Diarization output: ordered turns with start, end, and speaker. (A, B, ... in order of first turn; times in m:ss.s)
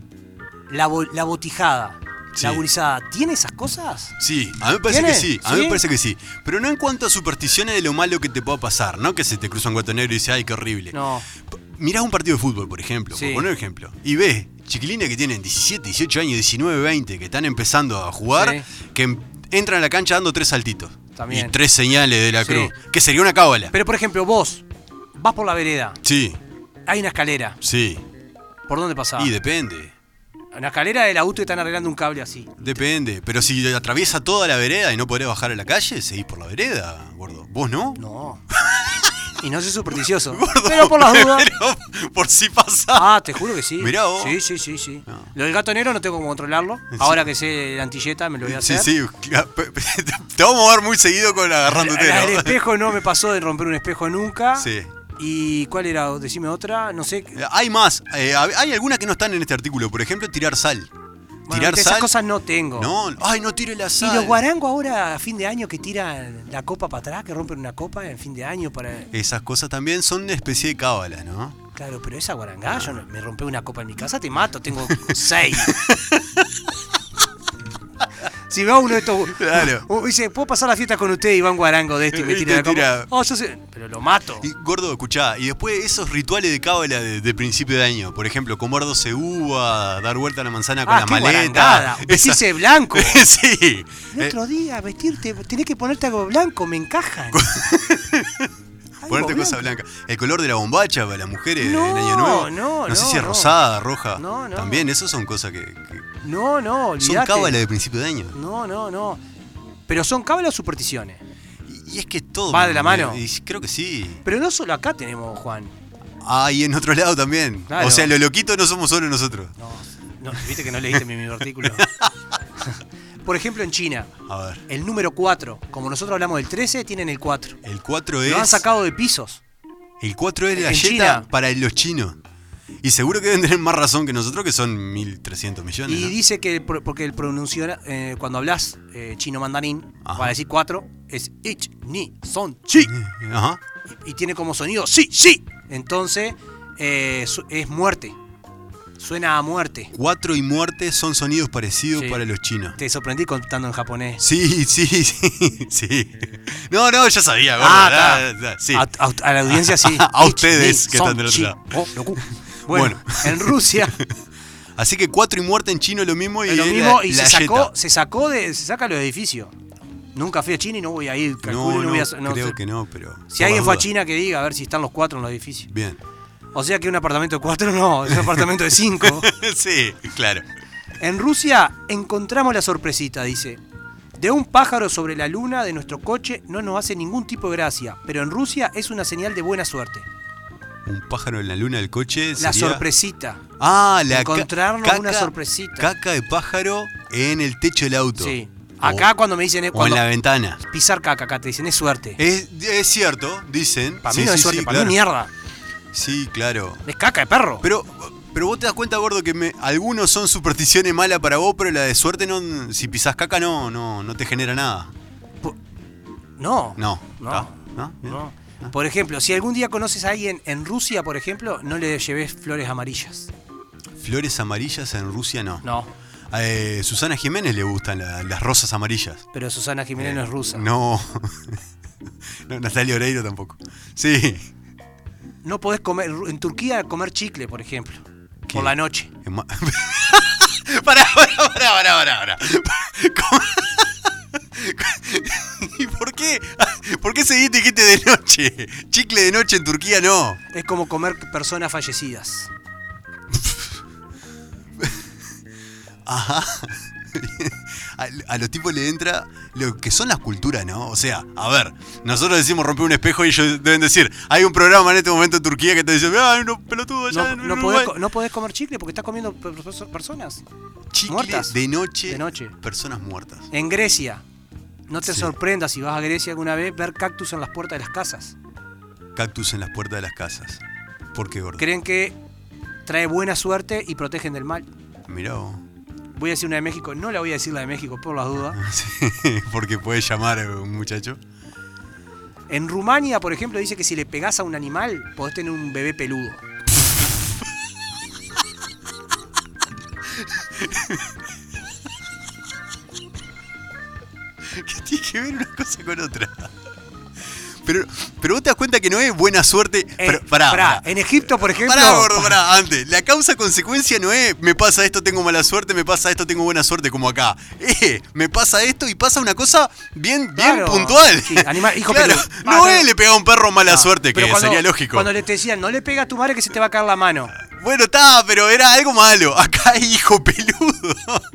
0:00.7-0:04.1 A
0:02.3-0:02.6 B
0:04.2-0:11.0 B
0:04.9-0:05.8 A
0:10.9-0:11.2 A
0:11.5-0:23.7 B
0:13.1-0:13.5 A
0:18.3-0:18.6 A
0:21.2-0:21.6 A
0:22.4-0:22.7 A
0:23.7-0:26.0 A
0:26.0-0:26.4 B
0:26.9-0:27.6 A
0:27.6-0:28.0 B
0:28.7-0:29.3 A
0:29.2-0:29.9 B
0:30.5-0:32.5 A
0:32.6-0:38.0 B
0:38.0-0:38.4 A
0:38.5-0:39.1 B
0:39.4-0:41.5 A
0:40.3-0:43.1 B
0:42.9-0:48.9 A
0:43.8-0:44.4 B
0:46.9-0:47.3 B
0:48.4-0:52.6 B
0:51.7-0:57.4 A
0:54.6-0:54.9 B
0:57.3-1:00.9 B
1:01.5-1:02.9 A
1:01.5-1:02.1 B
1:02.8-1:04.4 B
1:04.0-1:09.1 A
1:09.1-1:11.6 B
1:11.8-1:15.8 A
1:12.7-1:13.0 B
1:14.9-1:16.7 B
1:18.5-1:24.5 A
1:19.3-1:19.8 B
1:22.1-1:23.1 B
1:24.4-1:34.4 B
1:30.8-1:33.2 A
1:34.1-1:37.5 A
1:37.3-1:38.5 B
1:39.0-1:39.6 A
1:39.1-1:46.1 B
1:41.6-1:43.6 A
1:44.2-1:44.8 A
1:46.2-1:47.6 A
1:47.0-1:48.4 B
1:48.3-1:49.2 A
1:49.9-1:51.2 A
1:51.6-1:54.2 B
1:52.5-1:53.2 A
1:54.2-1:55.7 A
1:56.2-1:59.5 B
1:57.7-1:58.1 A
1:59.6-2:01.8 A
2:01.6-2:02.1 B
2:02.6-2:04.1 A
2:04.2-2:04.6 B
2:04.7-2:07.6 A
2:07.6-2:08.6 B
2:08.2-2:09.4 A
2:10.0-2:12.2 B
2:10.5-2:11.3 A
2:12.8-2:16.2 B
2:15.9-2:22.9 A
2:20.0-2:20.3 B
2:22.8-2:23.6 B
2:24.0-2:28.2 A
2:29.0-2:29.9 A
2:29.9-2:32.8 B
2:32.8-2:34.2 A
2:34.2-2:38.9 B
2:37.6-2:44.0 A
2:39.5-2:41.8 B
2:42.7-2:44.1 B
2:44.8-2:47.7 B
2:46.5-2:49.5 A
2:50.1-2:52.6 A
2:51.4-2:53.9 B
2:53.3-2:55.7 A
2:55.7-2:56.0 B
2:56.5-2:59.3 A
2:58.1-2:58.4 B
2:59.0-3:00.5 B
3:01.0-3:03.6 A
3:04.2-3:10.0 A
3:10.8-3:12.8 B
3:12.4-3:13.4 A
3:13.6-3:19.1 B
3:14.1-3:15.9 A
3:18.2-3:20.0 A
3:19.7-3:20.6 B
3:20.6-3:22.2 A
3:22.2-3:25.0 B
3:24.0-3:25.3 A
3:25.9-3:26.8 B
3:26.8-3:27.6 A
3:27.6-3:34.9 B
3:36.4-3:43.3 A
3:36.8-3:38.7 B
3:44.0-3:45.6 B
3:45.6-3:45.9 A
3:46.3-3:49.2 B
3:49.3-3:50.6 A
3:50.0-3:51.6 B
3:52.5-3:54.5 B
3:55.4-3:59.1 A
3:58.5-4:10.4 B
4:10.5-4:12.5 A
4:13.3-4:13.7 B
4:14.8-4:15.1 B
4:16.0-4:27.9 B
4:27.1-4:30.4 A
4:30.9-4:33.5 B
4:31.1-4:32.5 A
4:33.5-4:34.2 A
4:34.9-4:38.3 A
4:35.0-4:35.3 B
4:39.1-4:40.6 B
4:41.1-4:41.6 B
4:41.6-4:42.2 A
4:42.8-4:44.6 A
4:45.1-4:45.6 B
4:46.1-4:48.6 A
4:48.4-4:51.2 B
4:52.5-4:56.4 A
4:56.8-4:57.4 B
5:00.1-5:01.1 B
5:04.4-5:06.5 B
5:07.6-5:25.1 B
5:10.0-5:12.4 A
5:20.4-5:22.9 A
5:23.6-5:27.3 A
5:27.4-5:31.2 B